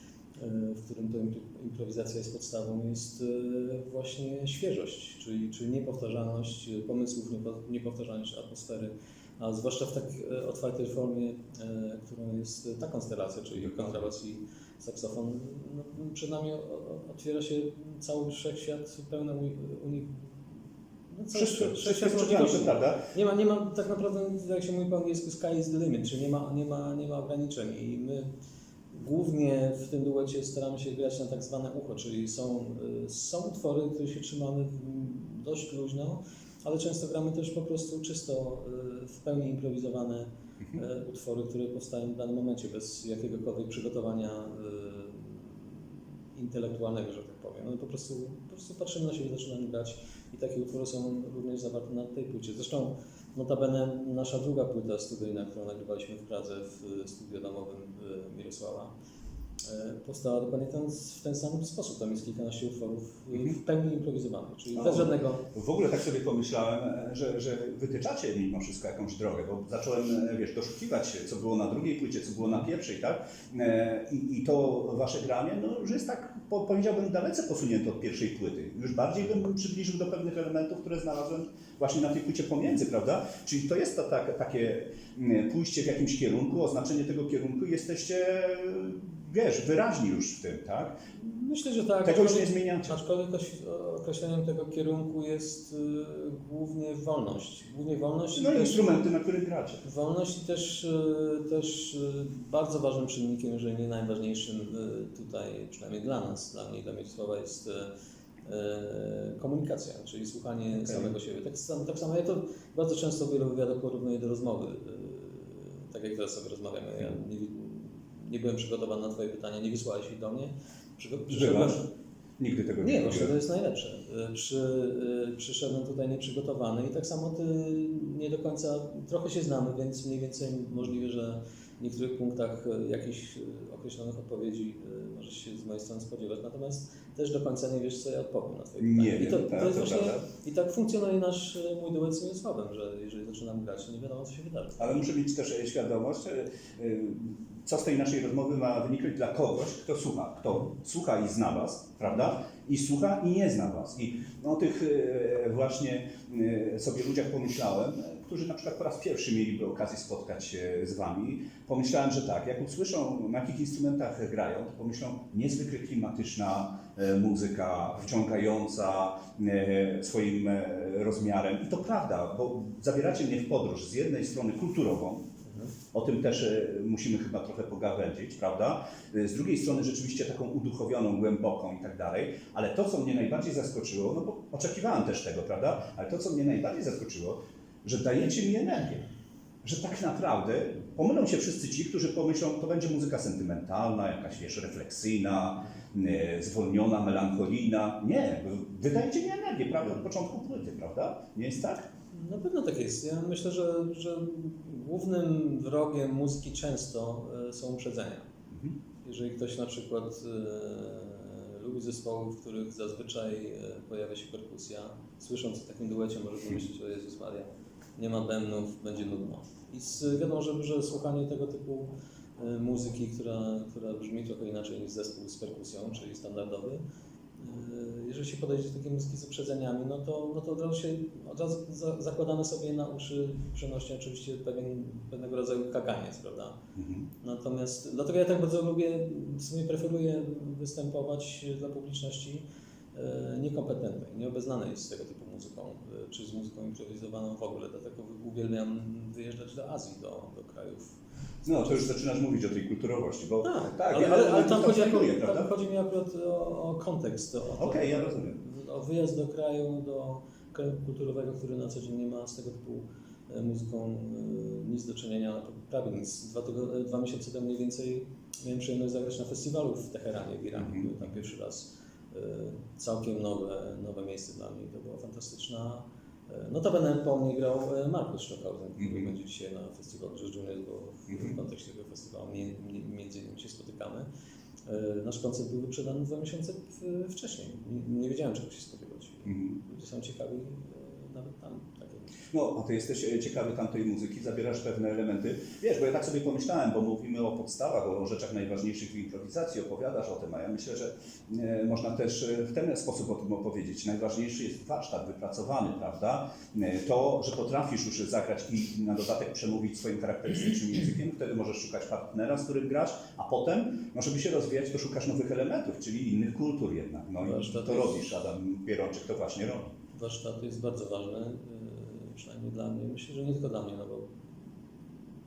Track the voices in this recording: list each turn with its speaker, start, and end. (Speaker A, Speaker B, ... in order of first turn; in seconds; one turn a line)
Speaker A: 0.3-20.4
Speaker B: 13.6-13.9
Speaker A: 21.1-28.3
Speaker B: 21.3-23.0
Speaker A: 28.9-58.9
Speaker A: 59.6-65.5
Speaker B: 64.8-91.0
Speaker A: 91.2-99.0
Speaker B: 92.0-93.0
Speaker B: 98.3-99.8
Speaker A: 99.8-107.9
Speaker A: 108.5-121.9
Speaker B: 110.8-111.1
Speaker B: 121.3-121.8
Speaker B: 122.4-123.3
Speaker A: 122.8-145.0
Speaker B: 138.8-140.3
Speaker B: 144.8-175.3
Speaker A: 175.5-175.7
Speaker B: 175.9-189.1
Speaker B: 189.6-201.9
Speaker A: 202.1-208.3
Speaker B: 208.5-208.8
Speaker A: 209.0-226.8
Speaker A: 227.4-236.6
Speaker B: 236.8-237.1
Speaker A: 237.2-251.9
Speaker B: 251.4-255.5
Speaker A: 253.4-284.1
Speaker B: 257.6-258.4
Speaker B: 270.6-271.0
Speaker B: 278.8-279.1
Speaker B: 281.1-281.4
Speaker A: 284.7-292.1
Speaker B: 289.3-289.6
Speaker B: 292.3-319.7
Speaker A: 317.2-318.0
Speaker A: 319.9-324.9